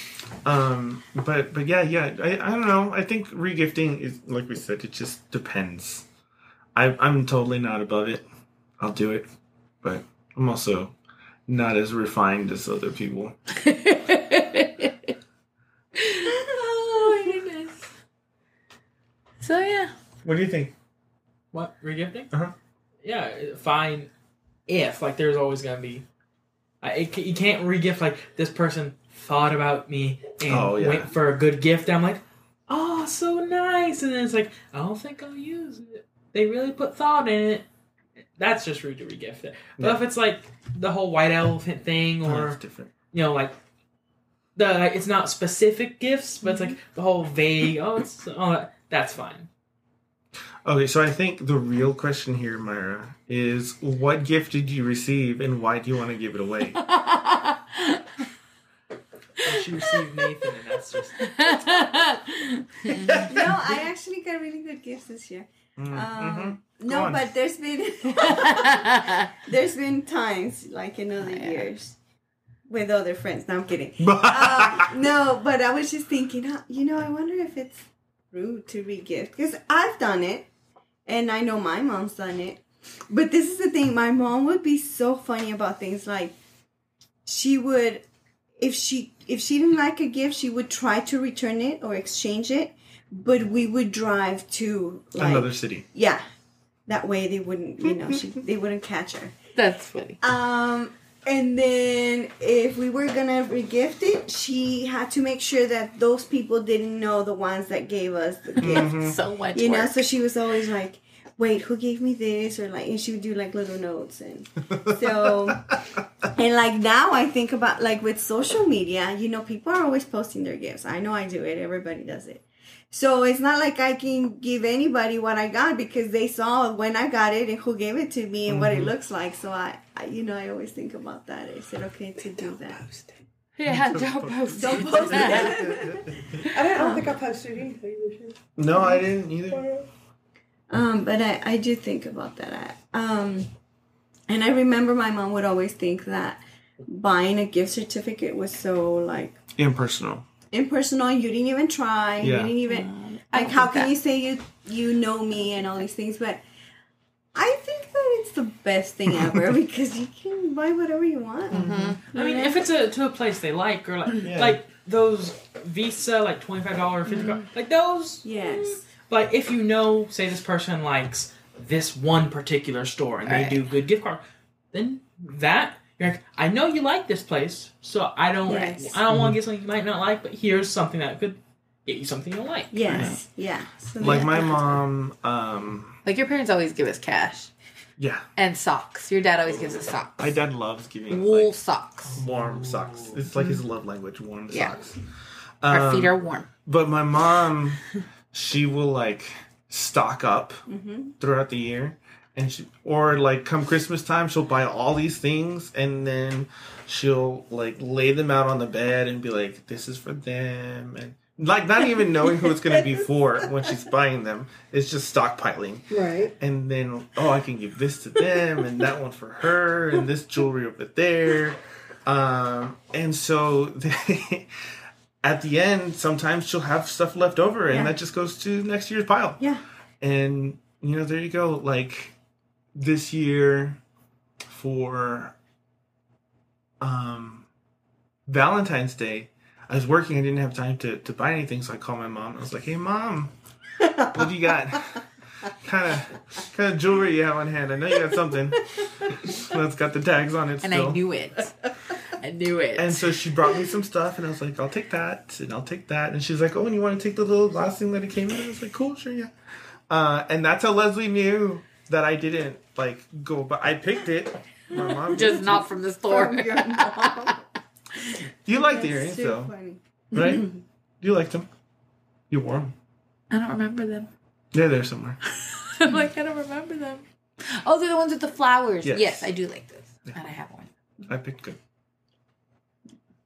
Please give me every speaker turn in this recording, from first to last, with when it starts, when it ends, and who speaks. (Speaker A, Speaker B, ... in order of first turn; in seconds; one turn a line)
Speaker A: 0.4-6.1
Speaker A: 6.8-8.2
Speaker A: 8.8-9.3
Speaker A: 9.8-10.9
Speaker A: 11.5-13.4
Speaker B: 13.6-14.9
Speaker B: 16.0-17.9
Speaker B: 19.4-19.9
Speaker A: 20.2-20.7
Speaker C: 21.5-22.3
Speaker C: 23.0-24.1
Speaker C: 24.7-26.1
Speaker C: 26.8-37.7
Speaker A: 30.5-31.1
Speaker C: 38.4-42.6
Speaker A: 42.2-42.9
Speaker C: 43.1-43.5
Speaker C: 44.5-49.5
Speaker A: 50.6-56.8
Speaker B: 56.8-58.0
Speaker C: 59.4-61.7
Speaker B: 61.2-63.3
Speaker A: 63.1-63.8
Speaker D: 63.1-72.0
Speaker A: 65.8-67.3
Speaker B: 68.2-69.3
Speaker B: 71.2-71.7
Speaker D: 72.7-80.5
Speaker A: 74.0-74.9
Speaker D: 81.1-86.3
Speaker D: 87.3-88.0
Speaker D: 88.6-96.2
Speaker A: 95.2-95.9
Speaker D: 96.9-99.3
Speaker B: 99.6-100.2
Speaker D: 100.2-115.8
Speaker A: 108.6-109.2
Speaker B: 108.6-110.0
Speaker A: 115.0-115.8
Speaker D: 116.3-132.8
Speaker A: 128.5-128.9
Speaker E: 132.4-133.1
Speaker B: 133.6-135.8
Speaker A: 133.7-136.5
Speaker D: 134.5-136.2
Speaker E: 136.5-138.4
Speaker D: 136.8-137.1
Speaker A: 138.6-139.7
Speaker E: 139.5-139.9
Speaker D: 140.7-143.5
Speaker D: 144.3-149.4
Speaker A: 149.6-150.3
Speaker D: 150.5-156.4
Speaker A: 152.2-152.6
Speaker B: 152.7-153.9
Speaker D: 157.3-162.6
Speaker A: 159.1-159.4
Speaker B: 161.5-162.0
Speaker A: 161.5-162.0
Speaker C: 162.1-183.2
Speaker A: 164.2-164.6
Speaker D: 168.2-168.8
Speaker B: 173.2-173.7
Speaker D: 178.4-179.0
Speaker A: 179.1-179.4
Speaker D: 182.7-184.8
Speaker A: 182.9-183.2
Speaker A: 184.0-186.0
Speaker B: 186.1-187.5
Speaker A: 188.0-188.3
Speaker B: 188.4-190.3
Speaker A: 190.2-191.6
Speaker B: 191.1-192.2
Speaker A: 192.2-195.0
Speaker A: 195.6-200.6
Speaker B: 195.7-196.5
Speaker D: 200.7-201.1
Speaker A: 201.2-224.6
Speaker E: 215.9-216.3
Speaker A: 225.2-229.4
Speaker A: 230.0-232.2
Speaker A: 232.7-233.8
Speaker A: 234.5-235.3
Speaker A: 236.8-237.5
Speaker A: 238.3-243.3
Speaker A: 244.0-251.0
Speaker B: 250.6-251.5
Speaker B: 252.1-253.2
Speaker A: 252.8-259.3
Speaker A: 259.9-265.7
Speaker D: 264.7-267.4
Speaker B: 265.1-267.4
Speaker A: 268.4-269.5
Speaker D: 268.6-270.6
Speaker A: 270.1-271.5
Speaker A: 272.3-272.7
Speaker B: 273.3-274.1
Speaker A: 274.5-275.2
Speaker B: 275.4-280.7
Speaker A: 278.8-279.3
Speaker A: 281.1-281.6